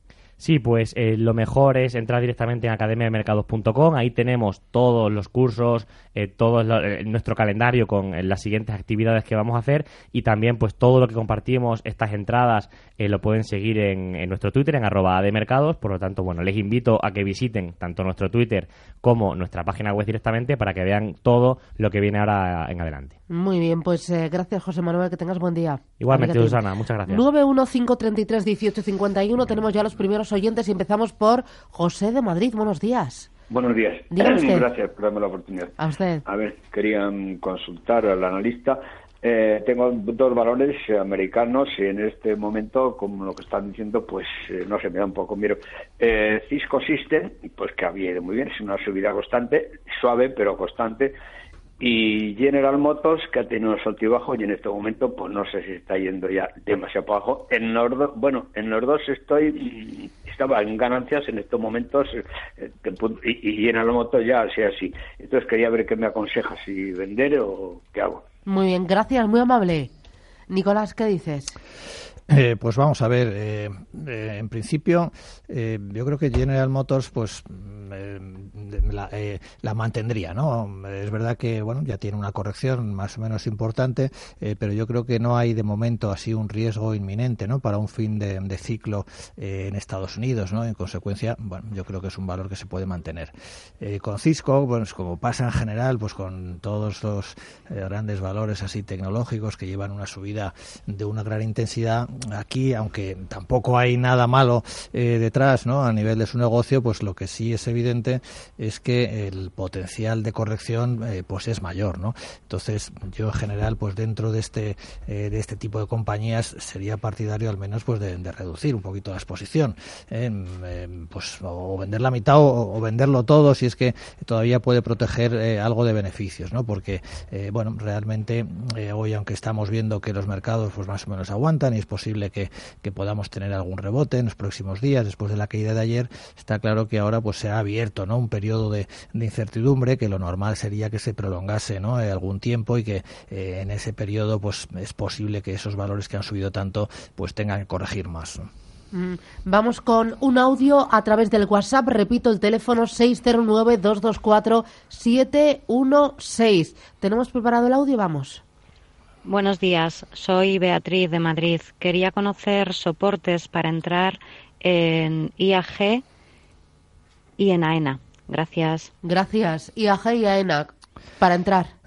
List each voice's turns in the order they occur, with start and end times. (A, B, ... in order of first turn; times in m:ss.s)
0:00.4-0:23.2 A
0:23.3-0:33.3 B
0:26.0-0:27.2 A
0:33.5-0:35.7 C
0:34.1-0:34.7 B
0:35.8-0:36.2 B
0:36.2-0:51.1 C
0:51.8-1:08.2 C
1:08.4-1:09.9 B
1:10.5-1:11.6 B
1:12.3-2:28.5 D
2:28.9-2:38.4 B
2:39.2-2:46.0 E
2:47.4-2:48.9 E
2:49.0-2:51.7 B